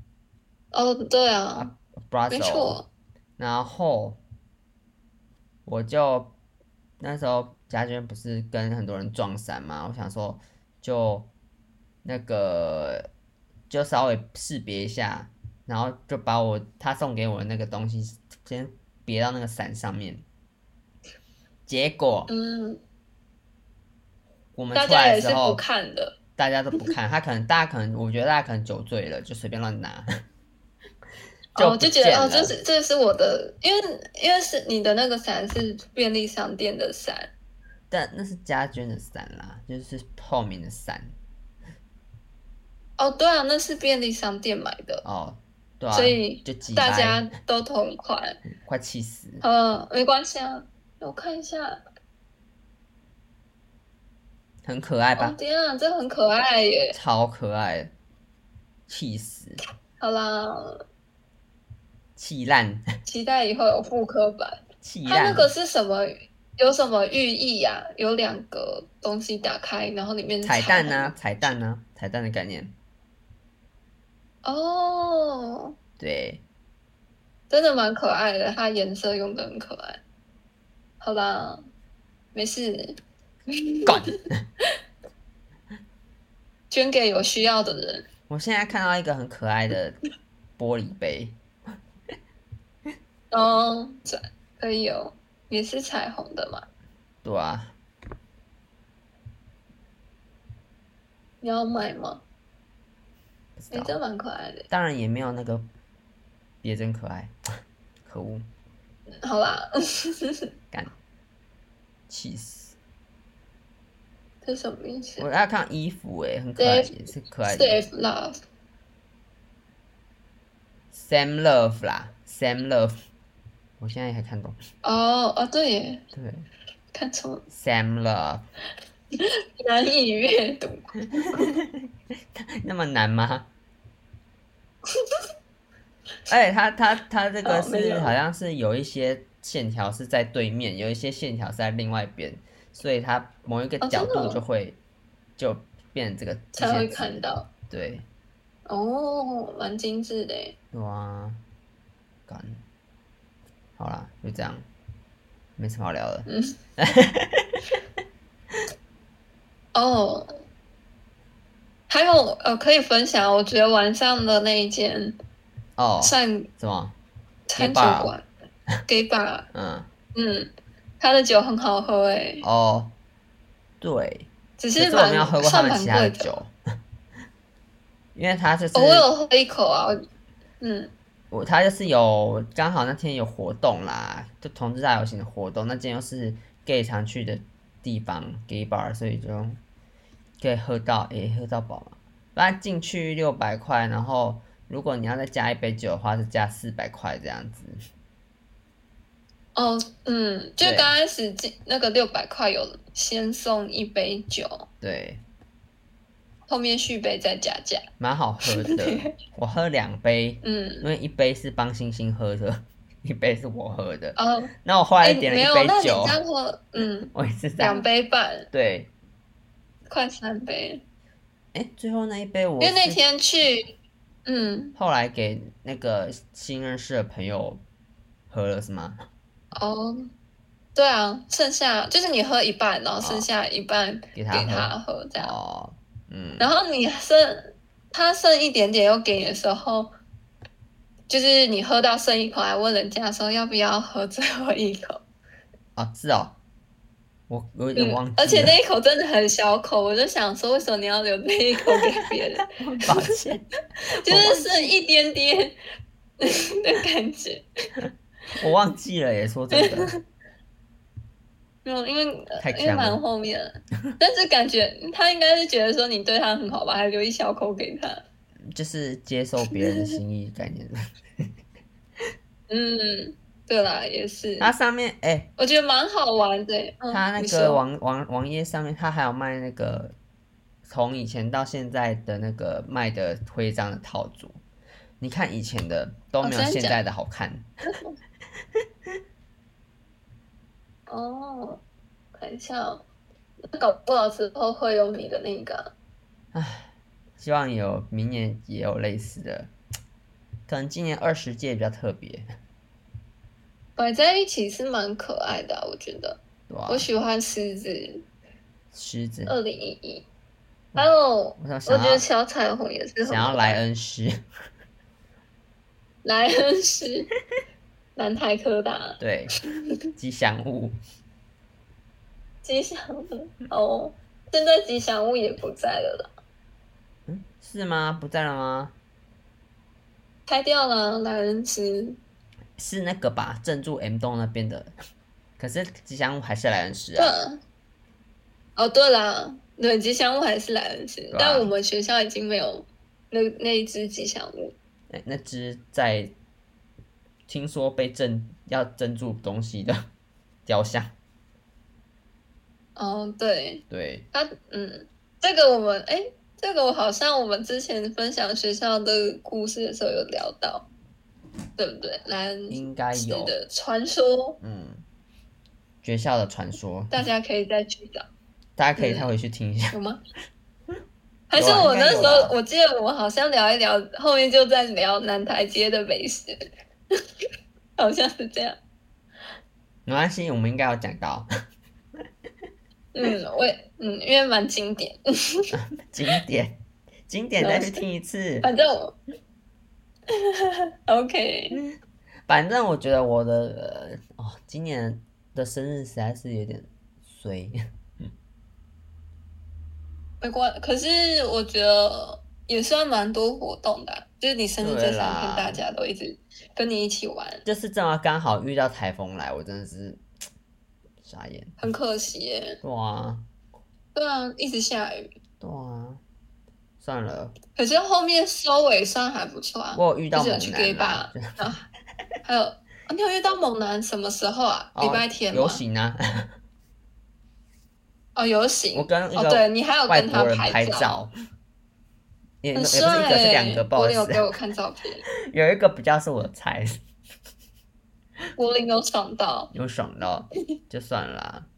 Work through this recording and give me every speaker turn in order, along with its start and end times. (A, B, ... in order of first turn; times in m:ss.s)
0:00.7-0:01.7 A
0:01.5-0:02.8 B
0:02.3-0:02.9 A
0:03.4-0:04.2 B
0:05.6-0:06.3 B
0:07.0-0:11.3 B
0:12.0-0:13.1 B
0:13.7-0:20.2 B
0:21.7-0:22.3 B
0:22.3-0:22.8 A
0:24.6-0:25.6 B
0:24.7-0:26.2 A
0:26.4-0:30.1 B
0:31.6-0:37.3 A
0:31.6-0:32.6 B
0:37.9-0:41.1 B
0:43.0-0:45.0 A
0:45.0-0:47.3 B
0:45.9-0:48.4 A
0:48.6-0:49.4 B
0:49.4-0:51.8 A
0:54.6-0:55.4 B
0:55.2-0:57.0 A
0:56.9-0:57.9 B
0:58.9-0:59.6 B
1:00.0-1:00.8 A
1:02.2-1:02.8 B
1:03.1-1:11.1 A
1:04.8-1:05.5 B
1:10.4-1:12.7 B
1:14.4-1:15.7 A
1:16.0-1:16.4 B
1:17.5-1:20.0 A
1:21.0-1:21.6 A
1:22.3-1:23.0 A
1:23.5-1:24.1 A
1:23.9-1:24.4 B
1:26.7-1:28.1 A
1:28.3-1:30.0 B
1:30.6-1:31.4 B
1:33.3-1:36.6 A
1:37.2-1:37.7 B
1:41.4-1:42.2 A
1:43.6-1:44.0 B
1:43.7-1:44.7 A
1:44.7-1:45.6 B
1:46.6-1:47.3 B
1:48.0-1:48.4 B
1:49.2-1:50.5 A
1:52.1-1:52.7 B
1:54.4-1:55.3 A
1:55.2-1:57.8 B
1:56.6-1:56.9 A
1:57.4-1:58.4 A
2:00.9-2:02.9 B
2:03.8-2:04.6 B
2:04.8-2:06.0 A
2:06.1-2:06.5 B
2:06.9-2:07.4 A
2:07.5-2:08.4 B
2:09.1-2:11.5 A
2:11.2-2:13.5 B
2:14.9-2:15.2 A
2:16.3-2:24.8 B
2:17.4-2:18.1 A
2:23.8-2:24.4 A
2:25.4-2:27.2 B
2:26.6-2:27.5 A
2:27.7-2:28.1 B
2:28.7-2:30.6 A
2:30.7-2:31.4 B
2:32.3-2:32.6 B
2:33.8-2:34.7 B
2:35.6-2:37.6 B
2:36.3-2:36.6 A
2:39.7-2:40.4 A
2:41.9-2:45.2 A
2:45.8-2:47.0 B
2:46.0-2:46.5 A
2:47.5-2:48.2 A
2:47.6-2:48.1 B
2:48.9-2:49.5 A
2:49.5-2:49.9 B
2:50.1-2:52.4 A
2:52.4-2:52.9 B
2:53.8-2:56.5 B
2:54.6-2:56.4 A
2:58.1-2:59.1 B
2:58.7-3:00.0 A
3:00.6-3:00.9 A
3:01.3-3:09.6 B
3:10.4-3:17.8 B
3:19.6-3:24.6 A
3:20.6-3:20.9 B
3:24.8-3:25.2 B
3:26.5-3:27.9 A
3:28.0-3:36.2 B
3:28.4-3:29.1 A
3:30.4-3:30.9 A
3:34.2-3:34.5 A
3:35.0-3:38.5 A
3:37.1-3:37.9 B
3:38.5-3:38.9 B
3:39.9-3:40.8 A
3:41.5-3:43.0 B
3:42.6-3:43.7 A
3:44.3-3:44.8 A
3:44.8-3:47.6 B
3:48.3-3:49.0 B
3:49.5-3:50.1 A
3:50.7-3:55.3 A
3:53.0-3:53.3 B
3:54.1-3:56.5 B
3:56.4-3:59.9 A
4:01.1-4:05.0 A
4:05.8-4:06.4 B
4:07.3-4:08.6 B
4:07.8-4:13.1 A
4:12.0-4:13.5 B
4:14.0-4:14.7 B
4:14.0-4:15.6 A
4:16.2-4:17.5 A
4:18.3-4:20.0 B
4:19.5-4:20.0 A
4:21.6-4:28.0 A
4:22.4-4:23.0 B
4:28.5-4:31.3 B
4:29.6-4:30.0 A
4:32.5-4:34.5 A
4:34.4-4:35.3 B
4:35.4-4:37.6 A
4:36.9-4:39.9 B
4:40.7-4:44.4 B
4:45.0-4:47.5 B
4:46.2-4:46.8 A
4:47.7-4:47.9 A
4:50.9-4:51.6 A
4:52.1-4:52.8 A
4:53.5-4:55.7 A
4:56.3-4:59.5 B
5:00.5-5:02.3 B
5:03.8-5:08.0 A
5:06.5-5:06.9 B
5:08.7-5:09.3 B
5:09.3-5:10.0 A
5:10.7-5:12.0 B
5:10.8-5:13.6 A
5:13.0-5:14.2 B
5:16.0-5:17.1 A
5:18.0-5:19.0 A
5:19.0-5:19.4 B
5:20.0-5:20.8 B
5:22.4-5:26.1 A
5:27.1-5:28.7 B
5:30.3-5:32.0 A
5:32.6-5:34.7 B
5:35.4-5:37.2 B
5:37.0-5:37.4 A
5:38.6-5:44.5 A
5:41.1-5:41.5 B
5:44.9-5:46.1 B
5:47.3-5:49.8 B
5:50.4-5:50.9 B
5:52.8-6:00.7 A
5:53.7-5:54.0 B
6:01.6-6:04.4 A
6:02.5-6:03.3 B
6:04.4-6:04.8 B
6:05.8-6:07.0 B
6:06.9-6:08.0 A
6:08.6-6:09.8 B
6:08.8-6:09.1 A
6:09.7-6:10.0 A
6:11.3-6:17.0 A
6:11.3-6:12.3 B
6:17.8-6:18.6 A
6:19.9-6:21.3 B
6:22.9-6:25.5 A
6:25.5-6:28.5 B
6:27.4-6:27.8 A
6:28.4-6:29.0 A
6:30.1-6:31.6 A
6:32.3-6:37.6 B
6:40.2-6:47.4 A
6:44.6-6:45.6 B
6:47.4-6:50.0 B
6:51.0-6:51.6 B
6:51.6-6:52.6 A
6:52.6-6:53.3 B
6:54.0-6:55.1 A
6:55.4-6:56.0 B
6:56.8-6:57.4 B
6:57.6-7:01.6 A
6:59.7-7:01.4 B
7:02.2-7:05.6 A
7:04.8-7:06.3 B
7:08.2-7:11.0 A
7:08.7-7:11.1 B
7:12.4-7:14.3 B
7:12.6-7:15.0 A
7:15.3-7:16.8 B
7:18.4-7:19.5 A
7:19.5-7:21.5 B